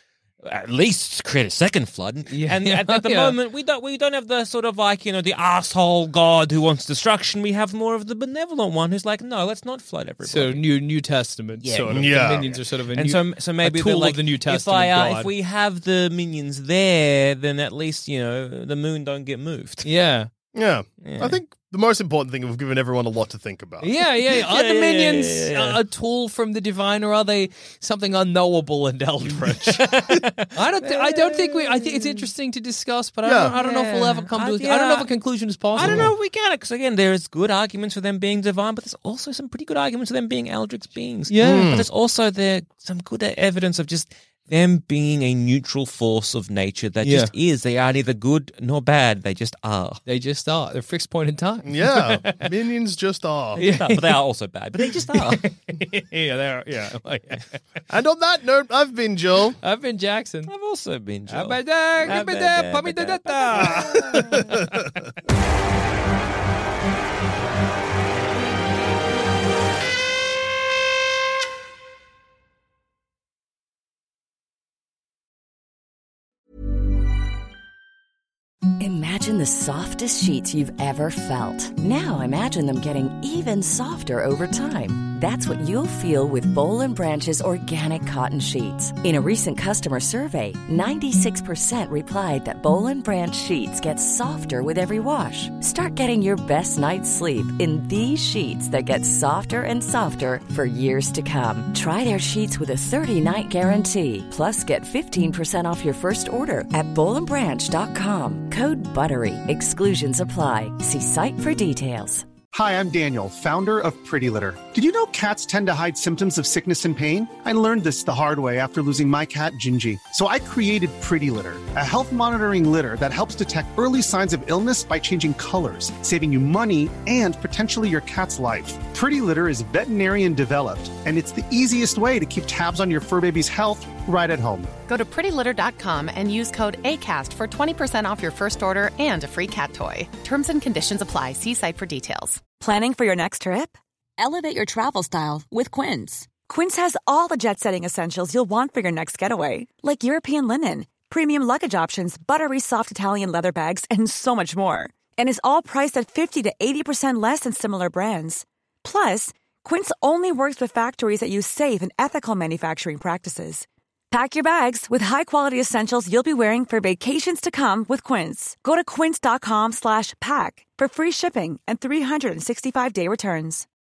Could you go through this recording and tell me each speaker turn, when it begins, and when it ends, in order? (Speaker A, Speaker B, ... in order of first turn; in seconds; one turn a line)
Speaker A: 0.4-10.6
Speaker B: 2.3-3.4
Speaker B: 10.3-15.3
Speaker A: 11.6-19.9
Speaker C: 11.9-12.6
Speaker B: 19.9-20.3
Speaker C: 20.5-23.9
Speaker A: 21.0-21.4
Speaker B: 23.8-30.0
Speaker A: 24.3-25.8
Speaker A: 29.7-32.3
Speaker B: 30.5-36.1
Speaker C: 33.2-33.5
Speaker A: 33.6-35.1
Speaker A: 35.7-50.0
Speaker C: 35.8-36.1
Speaker B: 41.3-41.7
Speaker C: 41.4-41.9
Speaker B: 47.0-47.3
Speaker B: 50.1-52.4
Speaker C: 51.7-53.6
Speaker A: 53.6-55.5
Speaker B: 53.6-54.2
Speaker B: 54.9-57.6
Speaker C: 57.9-59.6
Speaker B: 59.6-60.5
Speaker A: 60.5-64.5
Speaker B: 61.3-64.8
Speaker D: 78.8-112.3
Speaker E: 112.5-134.7
Speaker F: 134.9-142.4
Speaker G: 142.6-173.7